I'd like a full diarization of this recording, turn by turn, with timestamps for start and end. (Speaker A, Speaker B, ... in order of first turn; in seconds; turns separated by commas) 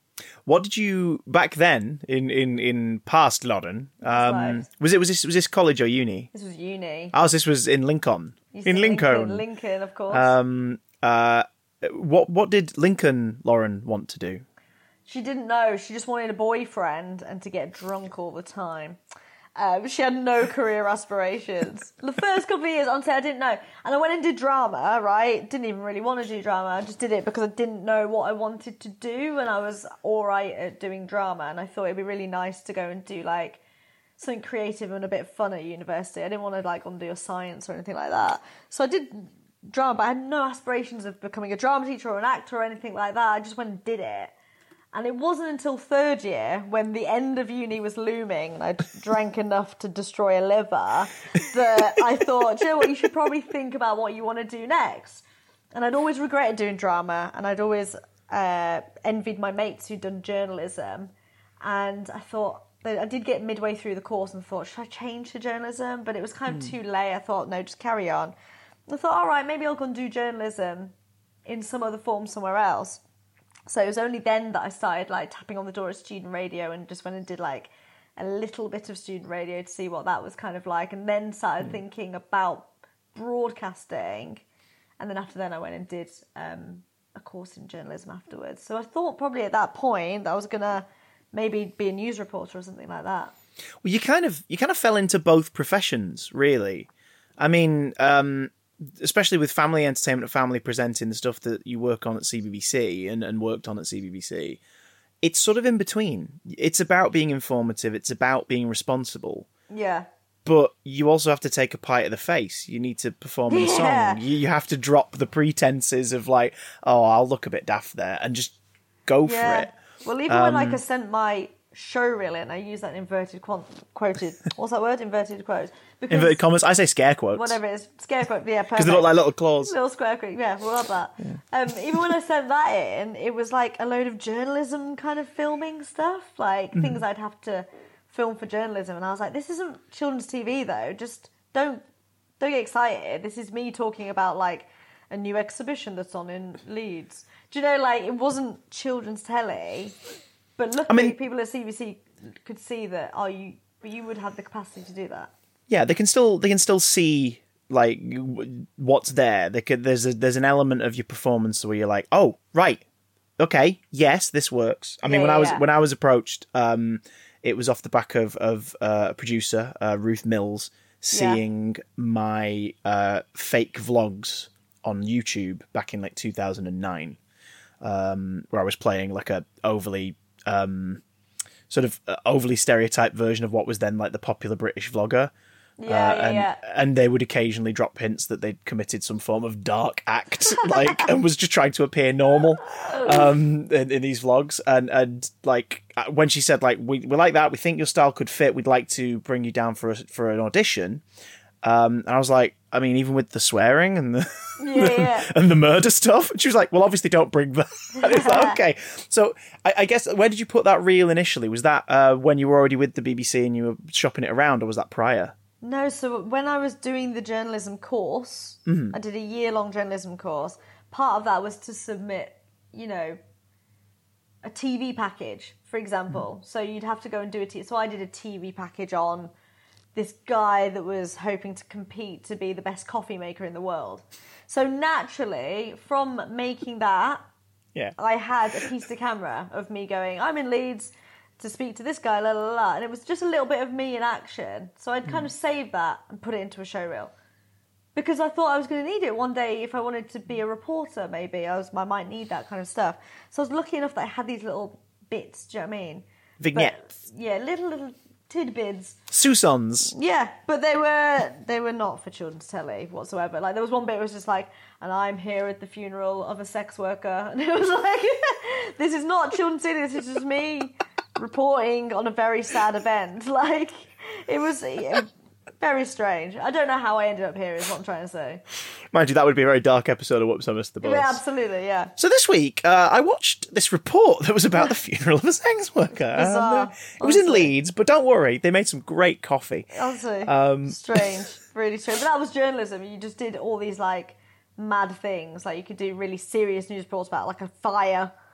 Speaker A: 0.5-6.3, Speaker B: 4.0-4.6, Speaker B: 6.3-7.1, Speaker A: 7.1-9.4, Speaker B: 8.5-10.3, Speaker A: 10.1-14.4, Speaker B: 15.1-19.0, Speaker B: 19.6-33.6, Speaker B: 34.2-44.3, Speaker B: 44.9-68.3, Speaker B: 68.9-70.9, Speaker B: 71.5-73.0, Speaker B: 73.7-84.4, Speaker B: 85.0-93.3, Speaker A: 93.8-96.9, Speaker A: 97.4-104.6, Speaker A: 105.2-109.5, Speaker B: 109.7-110.1, Speaker A: 110.4-118.5, Speaker B: 113.5-114.2, Speaker A: 119.0-119.7, Speaker B: 119.2-126.4, Speaker A: 120.3-120.8, Speaker A: 126.1-127.6, Speaker B: 127.3-141.8, Speaker A: 128.7-129.7, Speaker B: 142.4-150.0, Speaker B: 150.6-155.3, Speaker A: 150.9-151.2, Speaker A: 155.7-162.8, Speaker A: 163.4-177.2, Speaker B: 165.1-165.6, Speaker B: 171.1-171.4, Speaker A: 177.8-181.0, Speaker A: 181.7-185.3, Speaker B: 185.8-186.6, Speaker A: 185.8-201.0, Speaker B: 190.6-191.1, Speaker B: 192.6-193.3, Speaker A: 201.6-215.3, Speaker B: 204.6-205.3, Speaker B: 208.0-208.6, Speaker B: 215.6-223.2, Speaker A: 218.7-218.9, Speaker B: 224.4-229.3, Speaker B: 229.9-237.2, Speaker B: 238.0-247.1, Speaker B: 247.9-259.0, Speaker A: 256.4-256.8, Speaker A: 259.1-259.9, Speaker B: 259.9-278.4, Speaker A: 278.9-281.2, Speaker B: 280.8-281.9, Speaker A: 282.0-289.7, Speaker B: 286.1-287.5, Speaker B: 289.7-298.1, Speaker A: 290.2-291.0